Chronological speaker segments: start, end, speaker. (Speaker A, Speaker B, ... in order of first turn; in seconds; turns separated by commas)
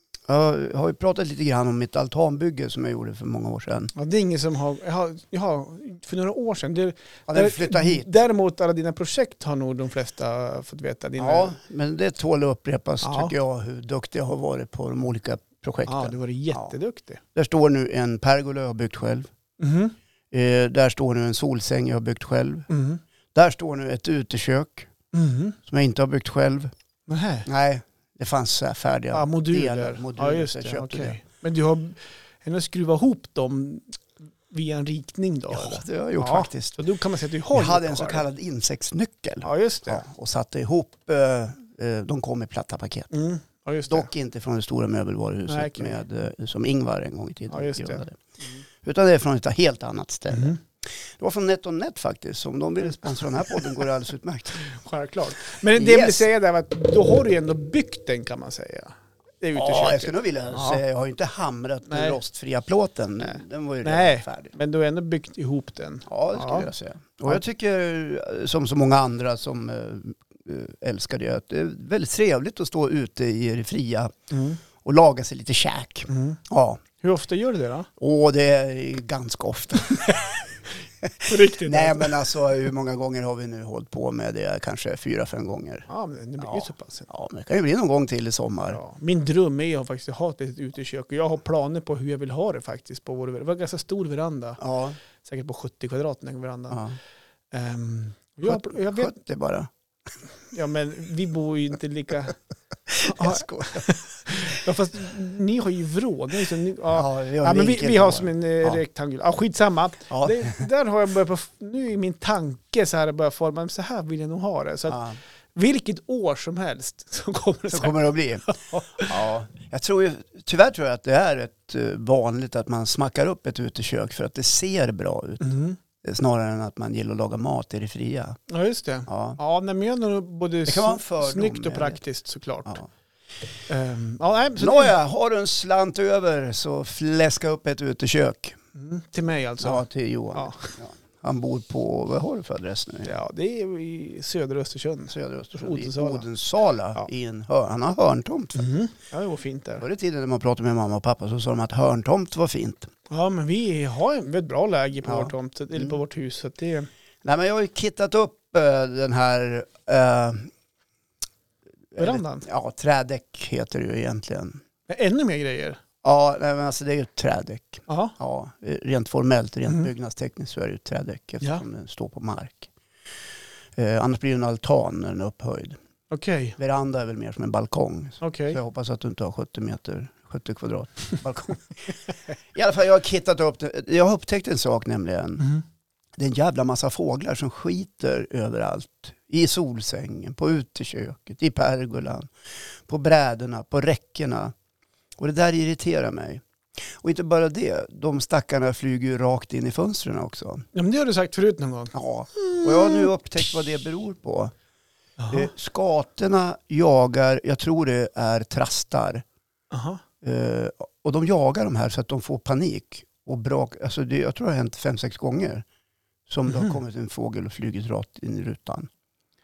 Speaker A: 0.3-3.9, Speaker B: 4.0-11.6, Speaker A: 7.3-8.1, Speaker A: 11.2-16.8, Speaker B: 13.0-13.3, Speaker B: 15.9-17.2, Speaker A: 17.4-19.3, Speaker B: 19.6-20.0, Speaker A: 20.3-22.7, Speaker B: 22.7-23.0, Speaker A: 23.3-24.9, Speaker B: 25.1-25.6, Speaker A: 25.7-26.7, Speaker B: 27.1-27.5, Speaker A: 27.5-31.2, Speaker B: 29.1-34.0, Speaker B: 34.5-38.2, Speaker A: 35.5-36.8, Speaker A: 37.5-43.1, Speaker B: 39.4-40.0, Speaker B: 43.1-44.1, Speaker A: 43.9-48.2, Speaker B: 45.5-46.0, Speaker B: 47.5-48.6, Speaker A: 48.8-50.6, Speaker B: 50.3-50.6, Speaker A: 51.1-54.6, Speaker B: 54.6-60.8, Speaker A: 55.7-56.3, Speaker A: 59.5-64.5, Speaker B: 61.9-62.2, Speaker B: 63.2-66.7, Speaker A: 66.1-74.1, Speaker B: 74.3-74.6, Speaker A: 74.8-76.8, Speaker B: 76.1-76.4, Speaker B: 77.0-77.9, Speaker A: 78.0-80.3, Speaker A: 81.0-85.9, Speaker B: 81.2-82.2, Speaker B: 85.9-87.1, Speaker A: 86.4-88.8, Speaker B: 88.7-94.6, Speaker A: 94.6-95.0, Speaker B: 95.2-96.8, Speaker A: 96.7-97.0, Speaker B: 97.5-99.1, Speaker A: 98.5-99.7, Speaker B: 100.5-102.4, Speaker A: 102.9-104.6, Speaker B: 103.0-119.1, Speaker A: 106.9-108.8, Speaker A: 110.1-110.7, Speaker A: 114.9-115.2, Speaker A: 117.7-125.4, Speaker B: 125.4-125.8, Speaker A: 126.0-128.4, Speaker B: 128.5-132.8, Speaker A: 129.1-129.4, Speaker A: 130.7-132.0, Speaker B: 133.7-134.9, Speaker A: 134.6-138.6, Speaker B: 138.8-140.7, Speaker A: 139.6-143.1, Speaker B: 143.0-146.3, Speaker A: 145.1-148.6, Speaker B: 148.6-149.8, Speaker A: 149.8-152.9, Speaker B: 153.1-156.9, Speaker A: 155.1-156.0, Speaker A: 157.2-160.5, Speaker A: 161.9-164.6, Speaker B: 162.0-162.5, Speaker B: 164.9-165.8, Speaker A: 166.0-172.7, Speaker B: 167.9-168.1, Speaker A: 173.8-175.8, Speaker B: 176.1-176.6, Speaker A: 176.6-182.0, Speaker B: 178.2-178.6, Speaker A: 182.5-185.5, Speaker A: 186.2-194.5, Speaker A: 195.2-200.6, Speaker B: 200.7-203.1, Speaker A: 201.9-204.5, Speaker B: 205.2-205.5, Speaker A: 205.3-209.2, Speaker B: 209.7-210.0, Speaker A: 210.2-215.7, Speaker A: 216.3-218.9, Speaker B: 216.5-216.8